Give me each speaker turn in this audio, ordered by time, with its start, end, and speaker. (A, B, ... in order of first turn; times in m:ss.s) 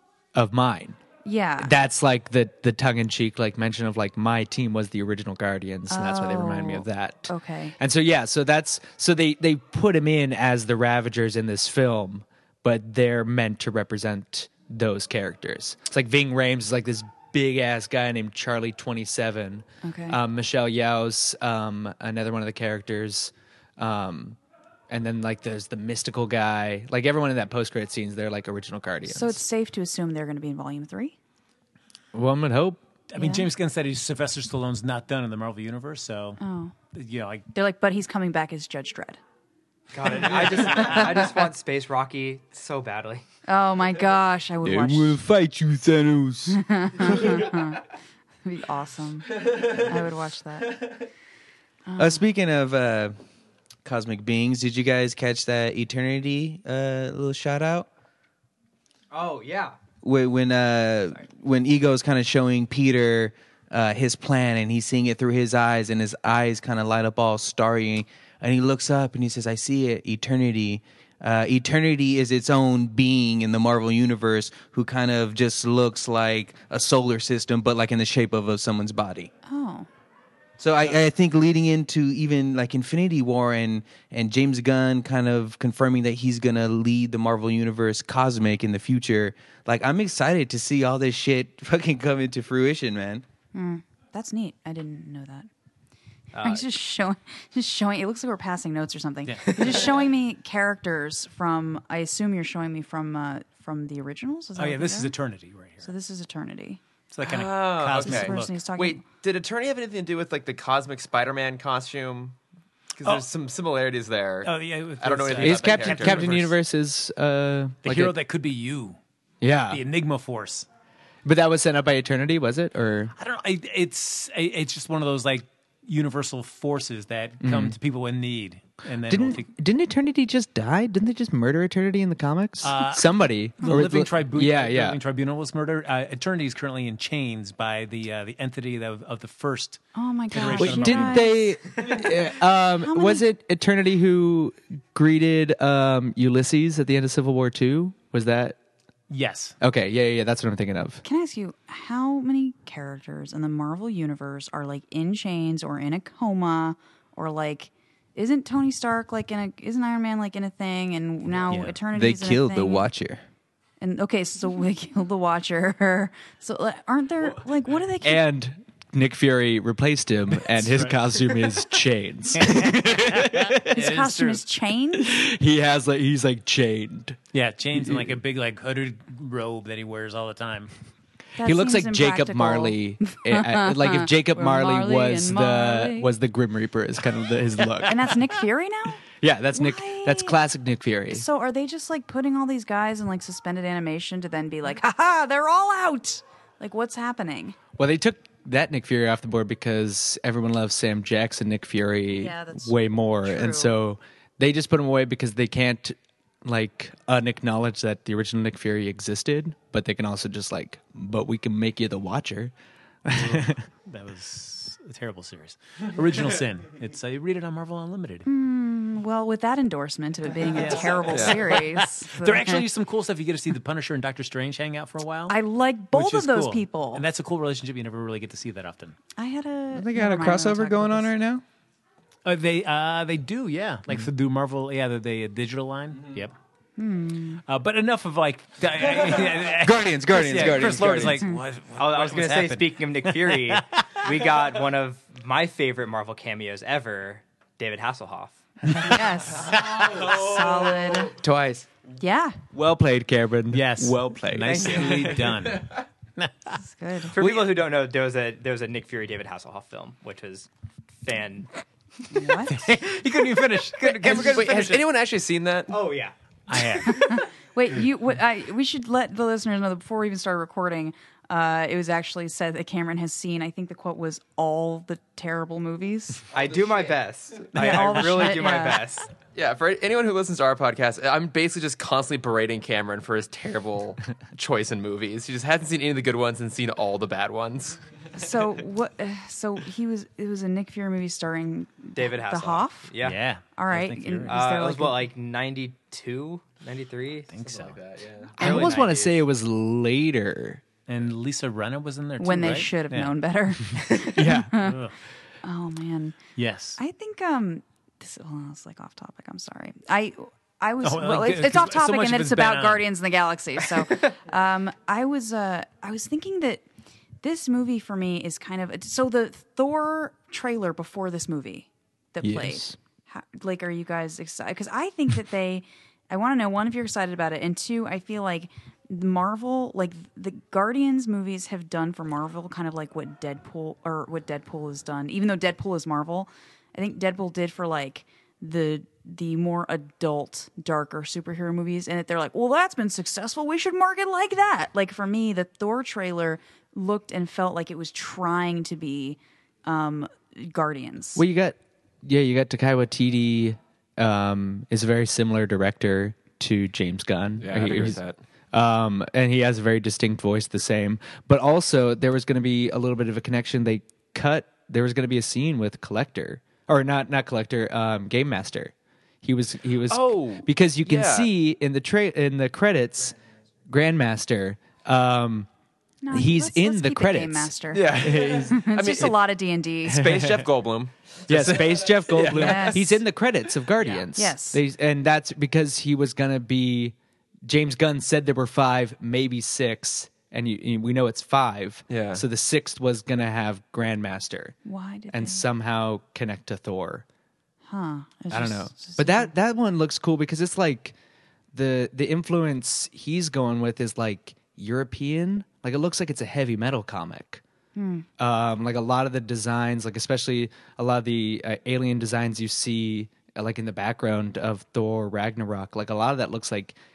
0:00.4-0:01.0 A
0:01.2-0:01.7 B
0:01.6-0:24.4 A
0:05.9-0:07.8 B
0:19.8-0:20.2 B
0:24.9-0:29.4 A
0:29.0-0:31.2 B
0:32.1-0:32.8 A
0:33.1-0:36.4 C
0:33.2-0:33.5 B
0:36.4-0:36.7 B
0:36.9-0:37.4 C
0:37.5-0:39.2 B
0:39.9-0:43.2 D
0:40.3-0:41.3 B
0:43.5-0:45.2 B
0:44.6-0:47.6 E
0:46.5-0:47.8 B
0:48.4-0:50.9 B
0:51.9-0:52.2 B
0:52.0-0:53.2 E
0:53.8-0:57.9 E
0:59.1-0:59.8 D
1:00.0-1:19.3 E
1:19.4-1:19.9 B
1:20.6-1:33.2 E
1:33.5-1:35.5 B
1:36.3-1:36.6 D
1:36.4-1:45.1 B
1:39.3-1:39.6 C
1:39.4-1:40.0 D
1:44.6-1:45.9 C
1:45.8-1:46.8 B
1:47.1-1:48.6 C
1:47.2-1:52.4 F
1:48.0-1:49.0 B
1:53.0-1:56.5 F
1:54.4-1:56.5 C
1:55.4-1:58.1 A
1:57.8-1:59.0 C
1:59.4-1:59.8 A
1:59.7-2:00.7 C
2:01.2-2:03.1 A
2:03.1-2:09.5 C
2:07.4-2:07.8 A
2:09.1-2:15.0 A
2:12.6-2:21.4 C
2:19.9-2:22.1 B
2:20.4-2:28.6 A
2:22.8-2:23.2 B
2:29.1-2:29.6 C
2:29.6-2:31.0 A
2:31.0-2:42.9 B
2:41.5-2:41.8 C
2:41.9-2:43.2 E
2:43.8-2:48.2 B
2:48.0-2:54.0 A
2:50.4-2:51.4 C
2:52.4-2:54.4 C
2:53.7-2:55.3 B
2:54.9-2:57.2 A
2:57.3-3:00.7 C
2:57.7-2:58.1 A
3:01.4-3:06.1 B
3:01.4-3:08.1 A
3:07.8-3:09.0 B
3:09.2-3:11.2 A
3:09.5-3:10.4 B
3:11.1-3:17.6 B
3:17.8-3:32.5 A
3:22.1-3:23.7 B
3:33.0-3:33.6 A
3:33.1-3:38.2 C
3:38.2-3:42.6 B
3:40.5-3:45.4 C
3:41.1-3:41.4 F
3:45.3-3:47.0 B
3:45.9-3:49.0 C
3:49.2-3:51.1 B
3:49.7-3:51.4 E
3:52.2-3:56.4 C
3:56.8-3:57.4 B
3:57.5-4:04.3 C
3:58.9-4:01.2 E
4:01.8-4:08.9 D
4:08.8-4:11.1 B
4:11.1-4:11.7 E
4:12.0-4:12.4 B
4:12.5-4:15.2 A
4:13.5-4:16.6 C
4:14.4-4:15.5 D
4:16.6-4:17.2 B
4:17.1-4:17.6 C
4:17.1-4:20.5 D
4:21.0-4:21.5 D
4:22.1-4:22.7 B
4:22.5-4:24.6 C
4:23.3-4:24.9 D
4:24.0-4:25.8 F
4:25.7-4:26.1 D
4:26.5-4:27.2 C
4:26.8-4:36.2 B
4:36.3-4:39.1 D
4:37.5-4:38.8 B
4:37.5-4:38.4 C
4:39.3-4:47.8 F
4:48.1-4:52.9 B
4:52.0-4:53.2 D
4:53.0-4:54.9 C
4:53.5-4:55.0 B
4:54.3-4:57.5 D
4:57.3-4:57.8 C
4:57.4-4:58.6 F
4:58.4-4:59.2 D
4:58.4-5:00.6 A
5:00.9-5:03.2 C
5:02.2-5:04.8 B
5:04.1-5:04.7 A
5:04.5-5:04.9 C
5:05.4-5:06.2 B
5:06.4-5:06.8 C
5:06.8-5:16.6 B
5:10.8-5:12.8 C
5:17.2-5:51.2 B
5:22.2-5:22.8 A
5:51.2-5:58.0 A
5:57.4-5:58.2 F
5:58.5-6:13.2 A
6:09.9-6:11.3 F
6:13.7-6:15.5 A
6:16.0-6:20.1 B
6:16.1-6:19.1 A
6:17.7-6:19.2 F
6:19.9-6:23.0 F
6:20.0-6:20.5 A
6:21.3-6:26.9 A
6:22.3-6:22.9 B
6:24.1-6:24.6 B
6:27.5-6:34.6 A
6:31.9-6:32.2 F
6:34.6-6:35.5 B
6:35.1-6:37.0 A
6:37.7-6:39.3 B
6:38.3-6:40.9 A
6:41.5-6:47.4 A
6:47.8-6:48.1 B
6:48.2-6:56.8 A